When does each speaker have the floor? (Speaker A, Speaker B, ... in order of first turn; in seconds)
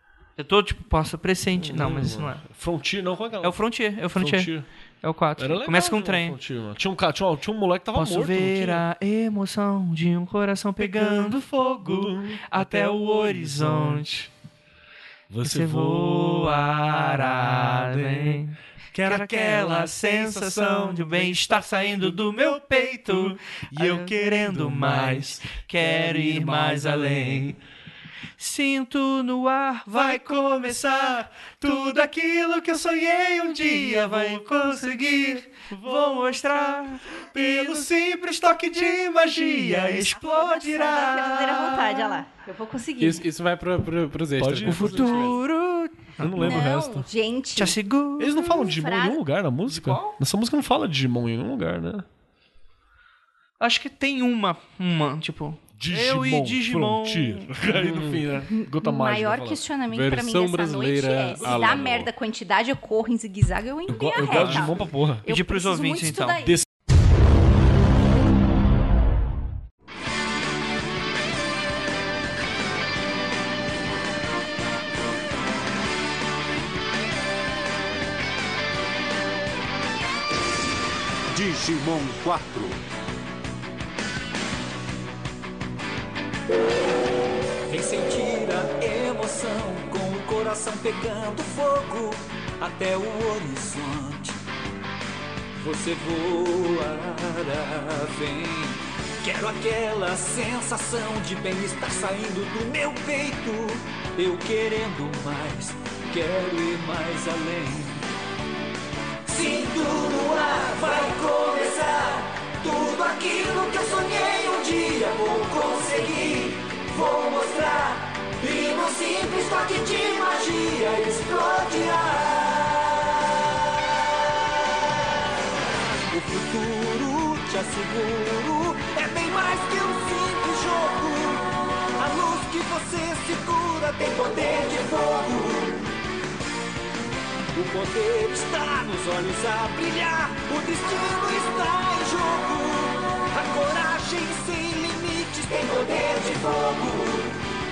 Speaker A: 0.4-2.4, 3.4-6.4, 8.0-14.3, 15.4-27.6, 28.4-42.2, 44.6-46.7, 47.6-48.4, 49.7-50.1, 53.6-57.7, 64.2-64.7, 65.3-66.4
Speaker B: 1.6-3.6, 4.1-4.7, 5.4-8.8, 11.9-14.0, 15.3-16.6, 18.9-21.1, 23.7-27.4, 44.4-45.3, 46.2-47.1, 48.2-52.1, 55.8-59.6, 63.9-65.3
Speaker C: 39.9-43.3, 46.4-49.2, 58.5-66.6
Speaker D: 43.0-45.4, 57.8-58.2, 59.9-62.1
Speaker E: 81.3-82.8, 87.7-94.4, 95.6-108.1, 109.3-123.4, 126.1-135.9, 137.5-147.4